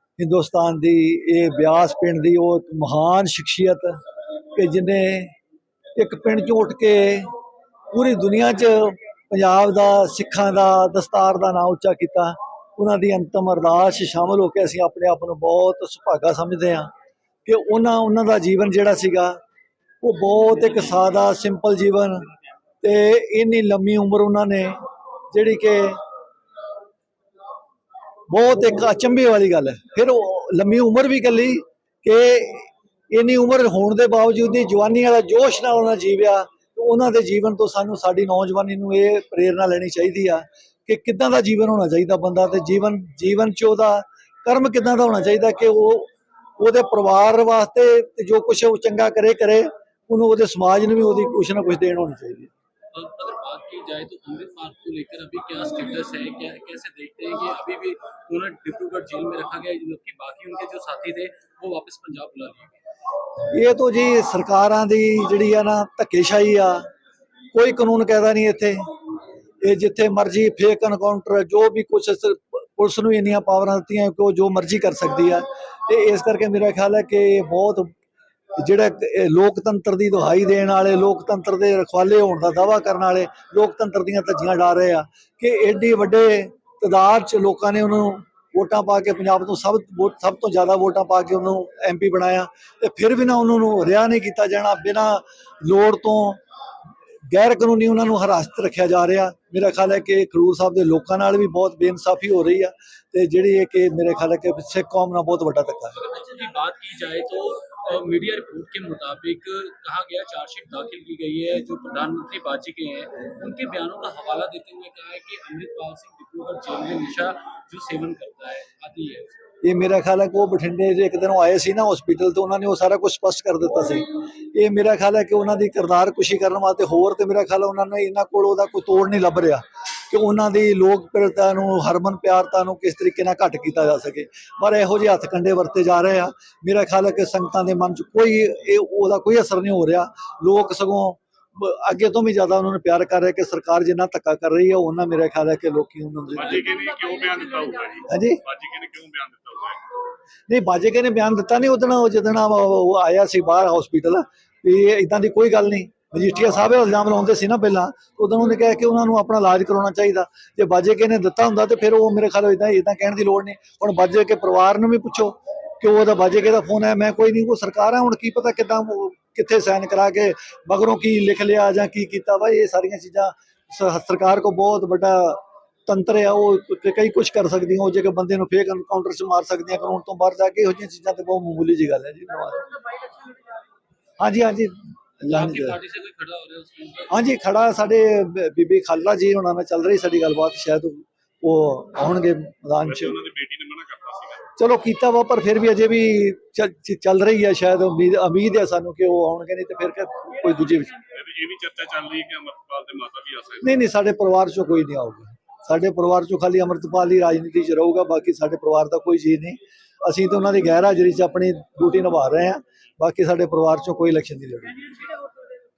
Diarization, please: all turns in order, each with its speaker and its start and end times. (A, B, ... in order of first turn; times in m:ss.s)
0:00.2-0:04.0 A
0:04.5-0:05.3 A
0:06.0-0:07.3 A
0:07.9-0:16.9 A
0:17.5-0:19.4 A
0:20.0-0:22.3 A
0:22.8-0:24.8 A
0:25.3-0:26.0 A
0:28.3-0:52.5 A
0:52.9-1:02.7 B
1:03.5-1:06.9 A
1:07.5-1:08.9 A
1:09.6-1:17.9 A
1:18.6-1:36.4 A
1:37.3-1:46.0 A
1:45.9-1:59.4 B
1:59.6-2:26.6 A
2:26.4-2:29.8 C
2:28.1-2:28.4 A
2:30.5-3:02.7 A
3:04.2-3:05.8 A
3:05.3-3:07.2 B
3:07.1-3:13.2 A
3:12.8-3:14.5 C
3:14.6-3:21.0 A
3:21.1-3:23.7 C
3:23.6-3:35.1 A